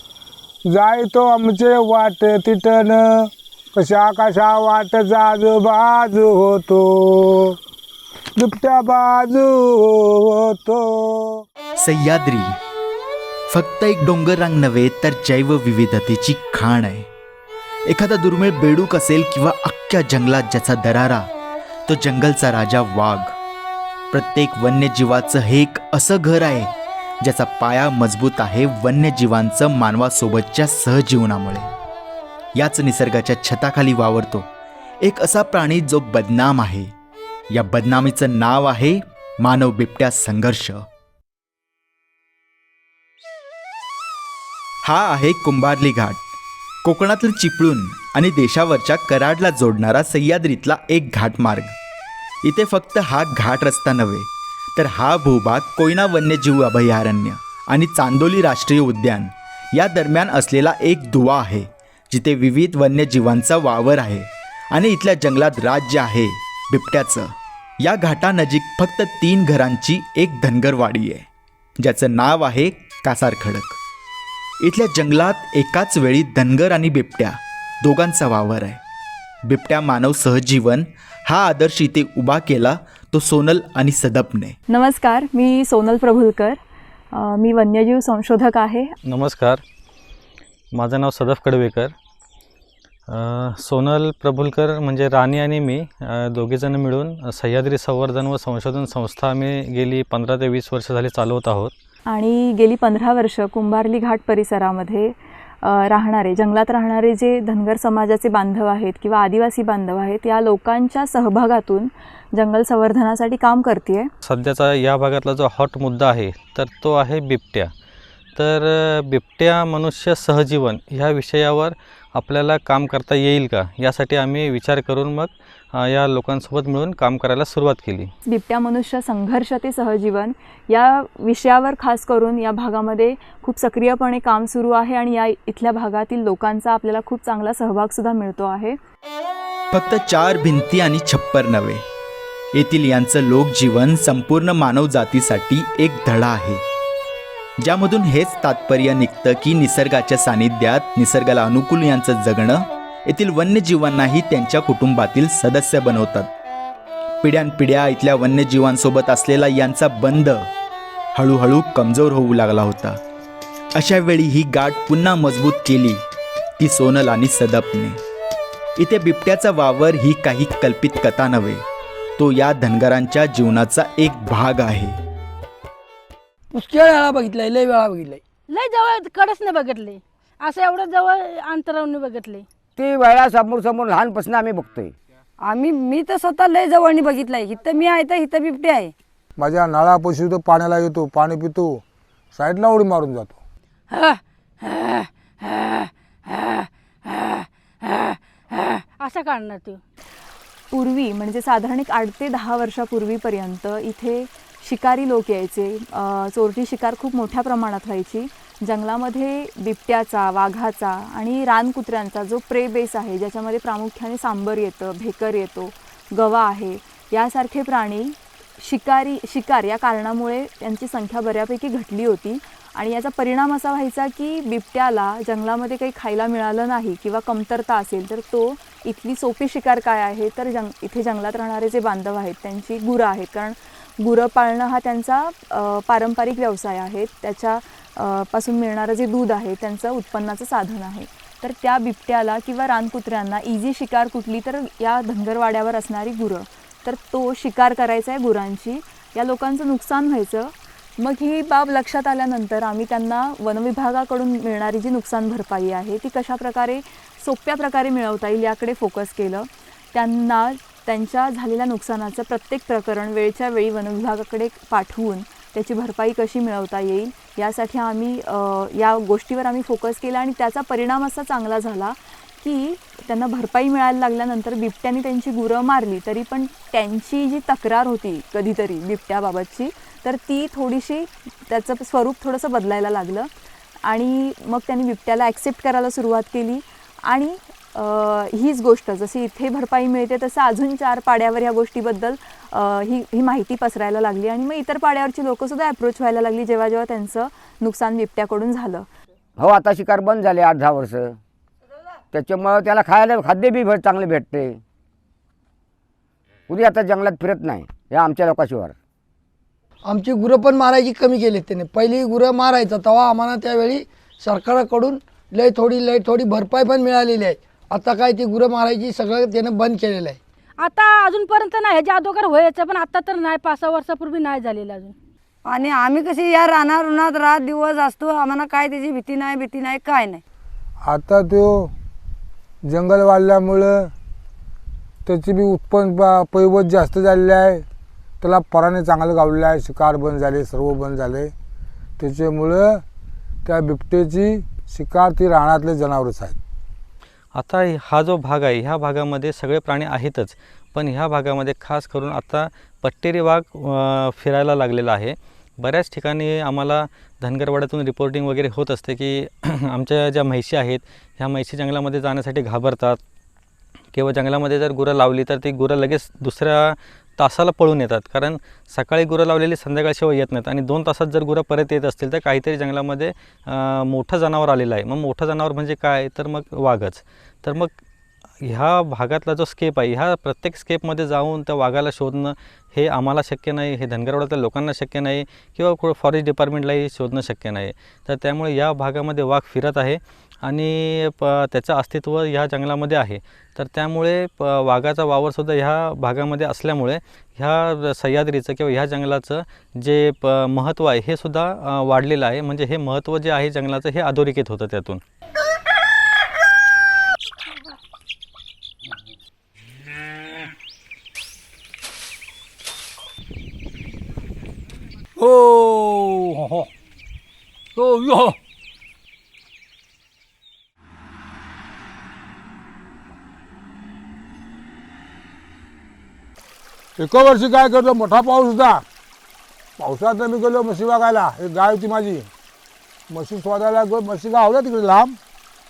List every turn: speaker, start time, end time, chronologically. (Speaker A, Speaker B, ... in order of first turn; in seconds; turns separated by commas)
Speaker A: 0.7-7.5, Speaker A: 8.3-11.4, Speaker B: 11.8-12.6, Speaker B: 13.5-17.1, Speaker B: 17.9-21.3, Speaker B: 21.9-23.3, Speaker B: 24.1-26.7, Speaker B: 27.2-31.7, Speaker B: 32.5-34.5, Speaker B: 35.0-36.9, Speaker B: 37.5-40.8, Speaker B: 44.8-46.2, Speaker B: 46.8-51.7, Speaker B: 52.5-71.2, Speaker B: 71.8-73.8, Speaker B: 74.6-78.8, Speaker B: 79.5-84.5, Speaker C: 84.7-86.6, Speaker C: 87.1-88.9, Speaker D: 89.1-89.6, Speaker D: 90.8-91.9, Speaker D: 93.1-101.7, Speaker C: 102.1-114.1, Speaker D: 114.2-117.7, Speaker D: 118.3-128.1, Speaker C: 128.2-138.8, Speaker B: 139.7-141.8, Speaker B: 142.5-146.6, Speaker B: 147.6-156.3, Speaker B: 157.2-160.4, Speaker B: 161.2-163.0, Speaker B: 163.8-166.0, Speaker B: 166.6-168.0, Speaker B: 168.8-171.6, Speaker B: 172.2-175.0, Speaker E: 176.5-178.2, Speaker F: 178.5-182.4, Speaker G: 182.8-184.9, Speaker H: 185.4-188.9, Speaker A: 189.3-191.8, Speaker A: 192.3-193.4, Speaker H: 193.9-196.7, Speaker F: 199.0-199.8, Speaker C: 200.7-283.3, Speaker C: 283.8-298.9, Speaker G: 299.4-301.2, Speaker G: 302.1-304.6, Speaker G: 306.5-308.8, Speaker E: 309.8-320.2, Speaker F: 320.6-324.9, Speaker H: 325.4-330.2, Speaker A: 330.8-331.7, Speaker A: 332.6-333.9, Speaker A: 335.1-337.6, Speaker A: 338.2-341.3, Speaker A: 342.0-342.8, Speaker A: 343.4-346.4, Speaker D: 347.3-363.0, Speaker D: 363.9-377.7, Speaker D: 378.4-405.0, Speaker A: 427.0-428.8, Speaker A: 429.8-432.3, Speaker A: 433.1-435.2